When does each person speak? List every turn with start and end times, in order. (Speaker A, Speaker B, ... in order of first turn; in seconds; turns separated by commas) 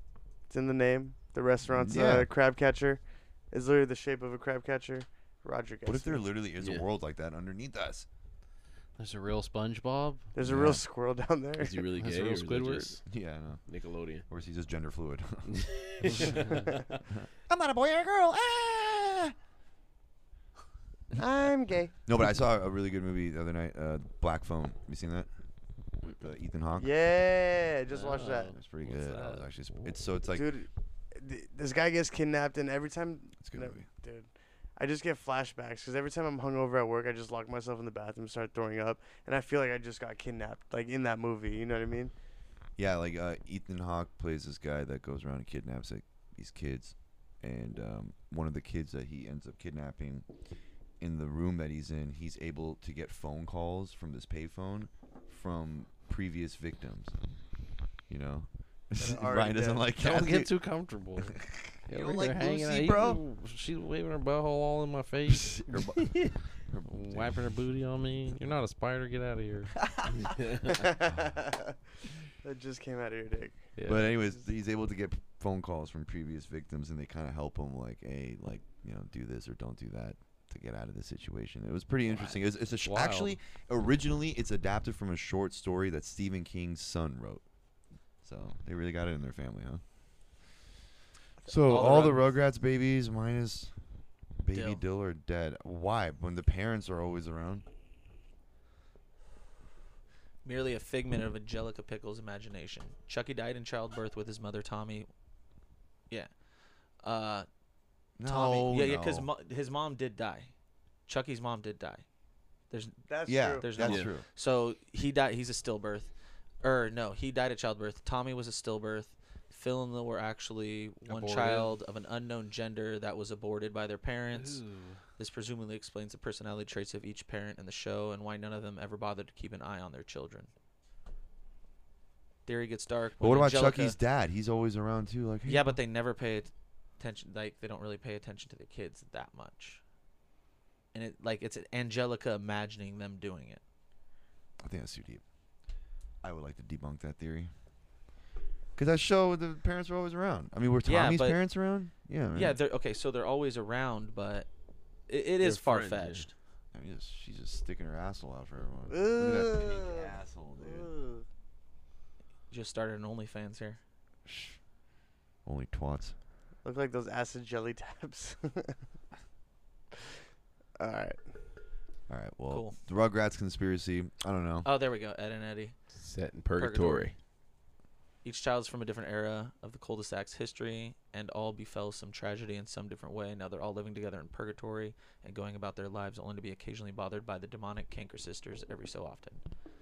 Speaker A: 0.5-6.2, Speaker B: 1.7-2.3, Speaker B: 5.8-8.1, Speaker C: 6.6-6.8, Speaker D: 9.0-10.3, Speaker A: 10.3-11.8, Speaker B: 10.4-10.8, Speaker C: 11.6-13.0, Speaker D: 12.0-13.0, Speaker B: 13.1-13.6, Speaker C: 13.7-14.2, Speaker B: 14.1-16.4, Speaker C: 15.5-17.0, Speaker B: 17.2-19.3, Speaker A: 21.1-21.9, Speaker B: 22.1-25.3, Speaker B: 26.0-27.0, Speaker A: 26.8-28.6, Speaker D: 27.9-29.5, Speaker B: 28.6-30.5, Speaker A: 30.3-42.1, Speaker B: 33.4-33.9, Speaker B: 42.8-50.2, Speaker B: 51.0-57.1, Speaker B: 58.1-60.5, Speaker A: 59.0-59.9, Speaker D: 60.0-61.3, Speaker B: 61.2-63.2, Speaker D: 61.9-65.6, Speaker B: 65.3-67.5, Speaker C: 66.0-66.3, Speaker D: 66.8-69.7, Speaker C: 70.3-70.6, Speaker A: 70.7-71.7, Speaker A: 72.4-73.7, Speaker D: 73.8-74.1, Speaker B: 73.8-87.4, Speaker D: 82.1-83.3, Speaker B: 88.2-89.8, Speaker E: 91.5-92.3, Speaker B: 91.5-93.8, Speaker B: 94.4-97.6, Speaker E: 94.5-94.8, Speaker E: 100.4-105.1, Speaker E: 107.0-107.5, Speaker B: 108.2-109.3, Speaker E: 108.2-110.5, Speaker E: 111.1-112.0, Speaker E: 112.7-113.0, Speaker A: 113.1-113.7, Speaker B: 113.2-114.2, Speaker E: 113.6-116.1, Speaker C: 113.8-114.1, Speaker E: 116.6-124.6, Speaker D: 121.0-121.7, Speaker D: 124.3-125.0, Speaker E: 125.2-130.5, Speaker E: 132.4-134.0, Speaker B: 133.2-135.8, Speaker E: 135.4-139.8, Speaker E: 140.9-143.6, Speaker B: 144.6-145.2, Speaker B: 146.2-147.5, Speaker B: 148.8-152.6, Speaker E: 150.8-151.4, Speaker E: 152.3-154.5, Speaker E: 155.1-156.3, Speaker C: 155.4-156.2, Speaker B: 156.7-160.9, Speaker A: 158.9-161.2, Speaker E: 162.5-163.8, Speaker B: 164.2-164.6, Speaker B: 165.4-166.1, Speaker A: 166.6-168.7, Speaker A: 170.8-171.2, Speaker B: 172.1-174.7, Speaker E: 172.5-172.8, Speaker E: 174.6-175.8, Speaker C: 175.9-177.1, Speaker E: 176.5-177.1, Speaker E: 178.2-189.4